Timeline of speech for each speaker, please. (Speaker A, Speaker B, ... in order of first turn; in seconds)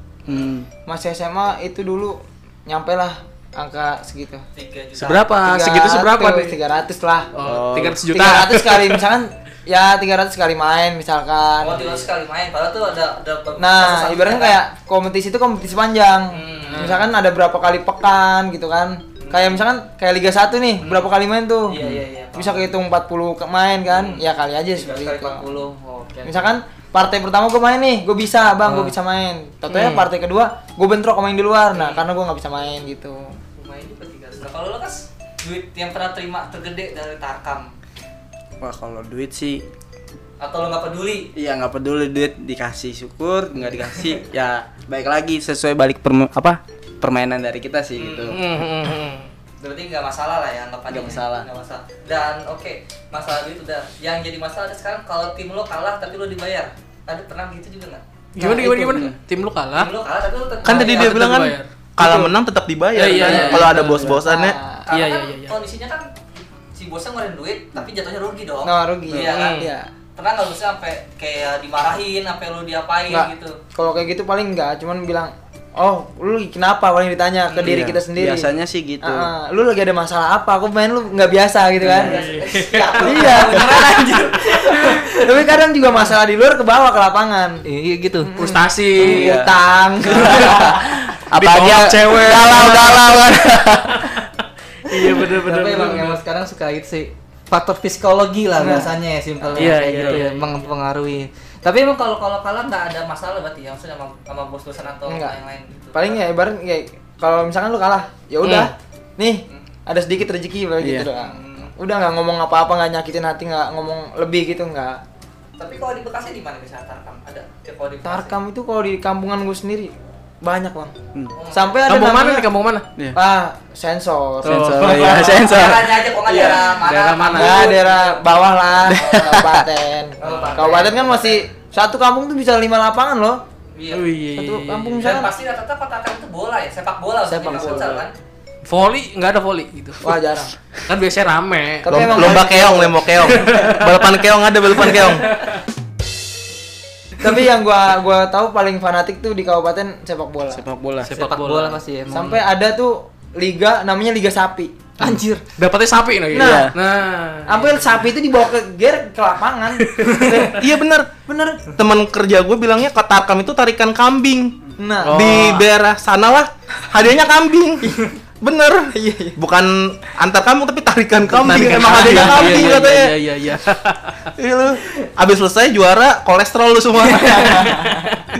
Speaker A: 0.3-0.5, 4.5-5.3, 11.6-14.6, 16.3-17.0, 19.2-19.6, 20.8-21.1, 21.7-22.7, 23.9-26.4, 28.6-28.9, 31.7-32.0, 33.6-37.7, 40.4-41.3, 47.9-48.4, 49.6-58.0, 59.7-61.3, 64.8-66.1, 66.7-69.6, 70.2-73.6, 77.5-77.8, 81.8-85.2, 87.6-88.3, 90.0-90.8, 95.0-106.2, 111.1-111.7, 115.6-118.4, 121.3-121.8, 125.3-128.4, 129.0-129.3, 130.2-131.4, 133.7-134.1, 135.0-138.1, 151.1-152.4, 171.8-172.8, 177.1-178.0
Speaker B: 0.3-0.7, 7.4-8.1, 38.6-39.6, 41.3-48.4, 50.9-51.5, 63.2-64.2, 77.6-79.3, 81.8-82.3, 89.0-89.5, 91.3-93.4, 99.4-100.2, 110.8-111.1, 124.4-126.1, 128.9-129.6, 137.5-137.8, 150.5-151.1, 156.3-156.7
Speaker C: 0.8-4.4, 5.4-7.3, 8.1-11.9, 13.6-21.8, 22.3-25.5, 26.2-33.4, 58.4-59.1, 62.0-62.3, 63.2-64.8, 68.6-69.9, 73.1-82.2, 83.0-87.6, 88.2-90.9, 98.6-98.9, 105.0-105.3, 105.9-115.0, 118.0-121.0, 121.5-122.5, 123.1-125.4, 127.3-133.4, 134.3-135.3, 137.3-138.0, 140.0-140.5, 141.8-143.0, 147.2-150.6, 152.1-155.4, 156.3-156.7, 157.4-160.6, 161.2-161.7, 164.8-165.5, 167.8-168.1, 168.9-169.4, 171.7-172.9, 177.5-178.0
Speaker D: 5.0-6.6, 7.3-9.1, 29.7-30.1, 48.3-49.3, 58.3-59.9, 60.6-61.7, 62.9-64.0, 64.9-65.5, 69.2-69.7, 82.0-83.1, 88.4-89.4, 91.3-94.2, 94.8-96.2, 99.5-100.7, 108.4-108.7, 121.9-122.8, 124.4-127.6, 133.9-135.2, 138.6-140.2, 140.9-142.3, 143.3-143.8, 151.0-151.8, 155.6-158.0, 159.8-160.5, 165.0-165.7, 171.3-174.3
Speaker E: 60.6-64.6, 91.4-93.8, 141.9-145.3, 160.5-161.1, 161.7-164.5, 165.1-167.9, 168.4-173.1, 174.4-177.8